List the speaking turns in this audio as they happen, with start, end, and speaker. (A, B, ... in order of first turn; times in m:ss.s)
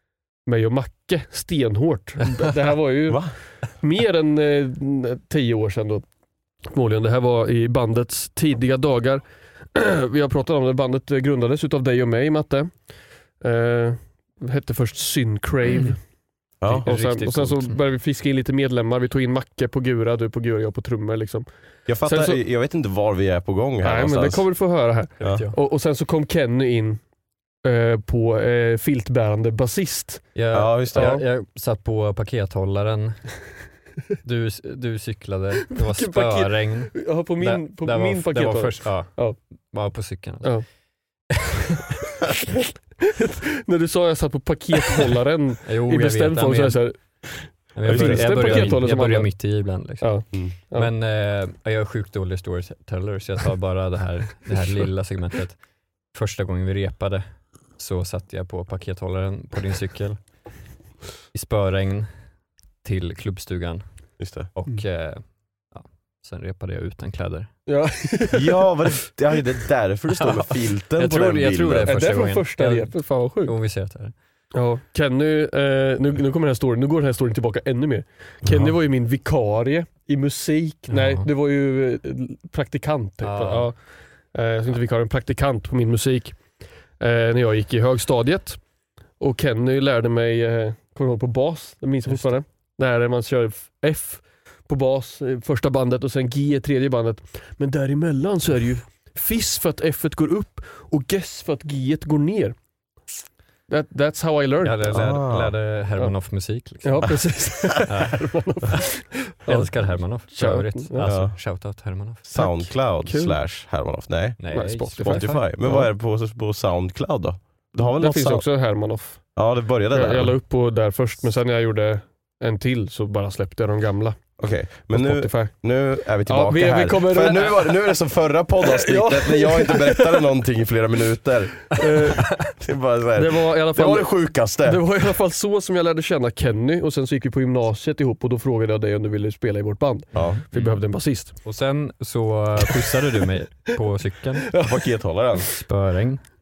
0:00.4-0:03.2 A
0:03.1-0:03.3 B
0:03.8-0:06.0 A
0:06.7-0:09.2 A
0:09.7-0:12.7 A
0:13.4-0:16.0 A
0:16.6-0:16.9 B
0:16.7-0:17.8 C
0:16.8-0:21.5 A
0:21.9-0:24.5 B
0:22.0-0:22.4 A
0:23.8-0:27.0 A
0:25.2-0:25.5 B
0:27.6-0:30.3 A
0:30.3-0:33.4 C
0:30.5-0:31.2 B
0:30.9-0:31.2 A
0:34.2-0:40.6 C
0:35.7-0:39.4 A
0:43.2-0:47.0 A
0:45.6-0:46.8 C
0:47.8-0:50.1 C
0:47.8-0:48.9 B
0:47.9-0:49.3 A
0:50.0-0:50.9 A
0:50.7-0:55.6 C
0:56.1-1:00.2 C
1:01.3-1:02.1 C
1:02.8-1:03.8 C
1:04.2-1:04.5 B
1:04.5-1:07.5 C
1:07.7-1:08.7 A
1:08.3-1:12.0 B
1:11.0-1:14.1 C
1:11.9-1:13.5 A
1:14.5-1:23.8 A
1:18.4-1:18.7 B
1:20.9-1:21.3 C
1:23.2-1:23.7 C
1:24.3-1:26.4 A
1:27.0-1:28.6 A
1:29.2-1:42.6 A
1:43.7-1:44.9 A
1:44.6-1:47.2 C
1:44.9-1:45.6 B
1:46.8-1:51.1 A
1:47.9-1:48.2 C
1:49.4-1:52.7 C
1:51.0-1:51.4 B
1:52.2-1:58.4 B
1:53.0-1:53.4 A
1:54.4-1:55.5 C
1:54.5-1:55.9 A
1:58.0-1:59.2 A
1:59.4-2:00.4 B
1:59.9-2:04.2 A
2:04.4-2:11.8 B
2:04.9-2:05.5 A
2:06.2-2:07.8 A
2:08.6-2:10.2 A
2:11.8-2:12.4 A
2:12.3-2:14.8 B
2:13.2-2:21.3 A
2:20.1-2:20.4 B
2:20.1-2:20.8 C
2:21.4-2:24.5 C
2:24.6-2:25.5 B
2:25.5-2:26.2 C